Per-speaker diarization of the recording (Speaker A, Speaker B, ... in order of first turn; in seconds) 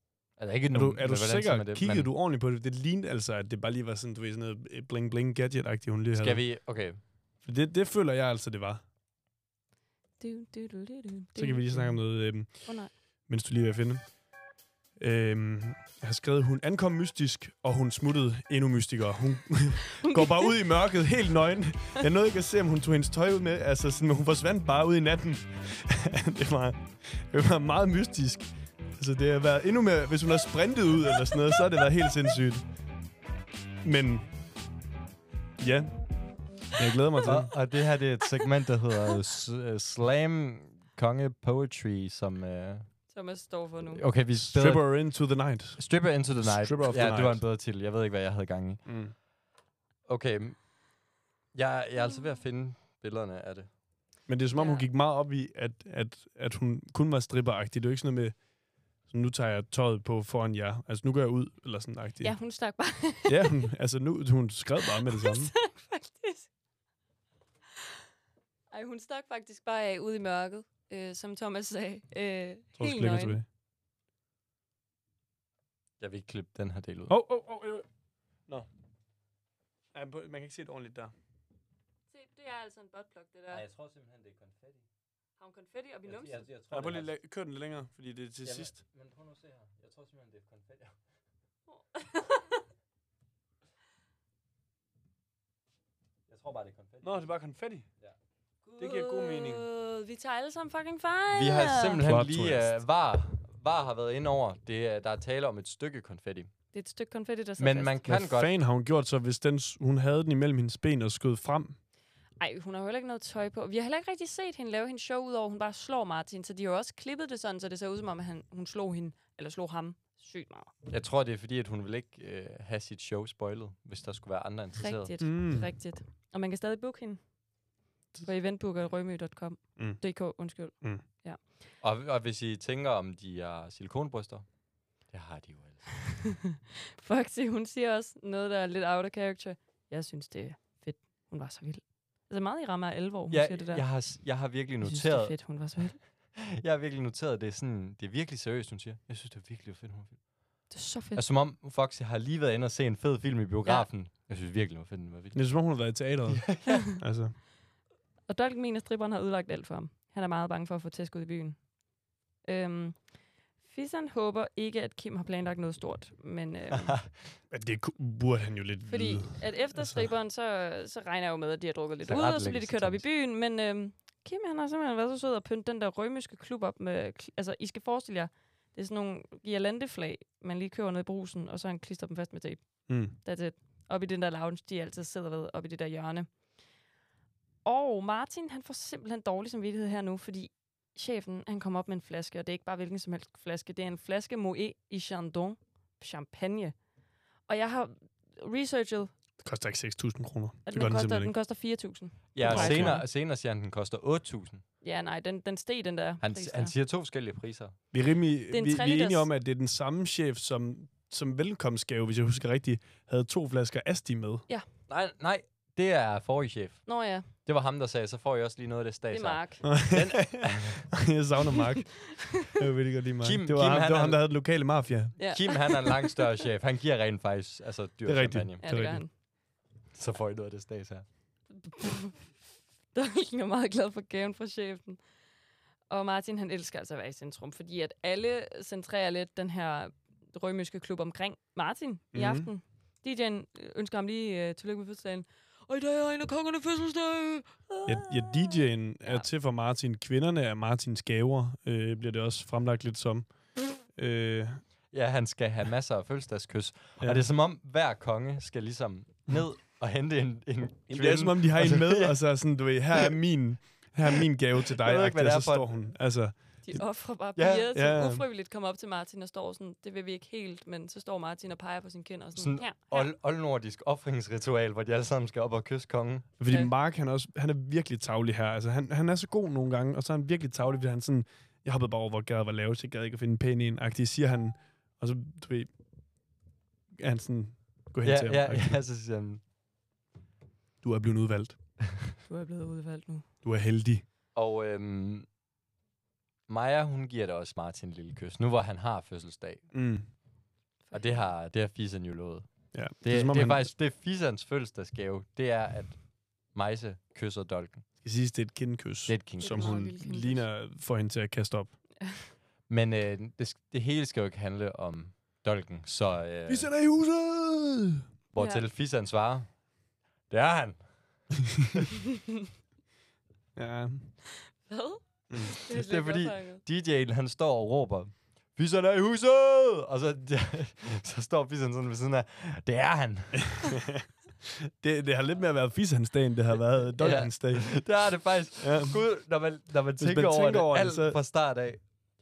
Speaker A: 0.4-2.1, 6.1-7.0, 37.2-42.9, 43.9-45.2, 45.8-48.8, 50.1-50.6, 51.5-53.7, 76.0-77.2, 83.5-84.8, 86.1-87.1, 88.4-91.0, 96.3-97.1, 101.3-106.5, 107.6-108.5, 120.9-125.1, 131.8-134.5, 135.1-136.1, 143.3-145.5, 146.3-150.2, 151.2-155.5, 156.3-156.8, 166.8-167.1, 172.1-173.0, 202.3-204.6, 206.2-207.8, 214.9-220.9, 223.2-224.2, 225.2-228.6, 229.9-231.1, 254.9-262.2, 264.8-265.8, 267.4-267.7, 272.4-276.3, 288.0-289.4, 294.4-295.3, 296.5-299.7, 300.9-306.0, 306.5-307.9, 309.1-309.8, 312.7-316.7, 318.3-319.6, 320.3-321.2, 325.7-333.7, 337.0-341.8
Speaker B: 0.7-6.4, 7.4-8.8, 11.4-12.5, 13.3-14.1, 15.0-32.6, 33.8-34.3, 35.6-36.0, 36.8-37.5, 44.4-47.4, 48.9-49.1, 54.3-58.4, 59.1-62.4, 63.2-65.5, 72.8-73.5, 77.1-77.9, 79.9-81.1, 86.7-88.8, 97.0-97.9, 98.8-99.6, 102.0-102.7, 108.1-111.8, 125.2-125.7, 155.3-157.4, 167.5-170.1, 182.9-183.2, 199.4-201.3, 202.4-203.1, 207.9-214.4, 219.6-225.2, 228.1-229.0, 242.1-242.5, 247.9-253.3, 253.8-254.6, 257.0-257.3, 260.9-266.8, 267.7-268.2, 276.4-285.7, 286.9-288.8, 290.8-291.6, 293.4-294.1, 299.7-300.1, 302.7-303.7, 308.0-311.7, 316.5-318.1, 323.6-324.2, 333.5-337.9, 338.6-339.0, 340.0-341.2
Speaker C: 10.2-12.0, 12.6-12.9, 20.0-20.5, 43.1-44.0, 54.5-54.9, 62.2-63.6, 64.9-66.5, 68.7-73.4, 82.1-83.6, 85.4-86.5, 91.7-92.6, 98.7-102.0, 106.7-108.0, 112.4-120.7, 124.8-127.2, 128.2-131.4, 137.0-143.9, 144.8-146.0, 150.7-151.2, 158.3-161.6, 162.4-163.0, 163.6-167.0, 168.9-186.3, 187.7-196.8, 197.5-199.1, 200.7-203.0, 204.8-206.7, 208.5-209.3, 216.9-217.3, 219.1-219.7, 225.2-226.2, 228.6-229.1, 231.6-232.3, 232.9-235.0, 235.9-249.3, 266.6-273.1, 276.5-276.7, 292.3-293.3, 300.9-301.2, 309.4-310.4, 312.0-312.3, 318.4-318.6, 324.6-326.6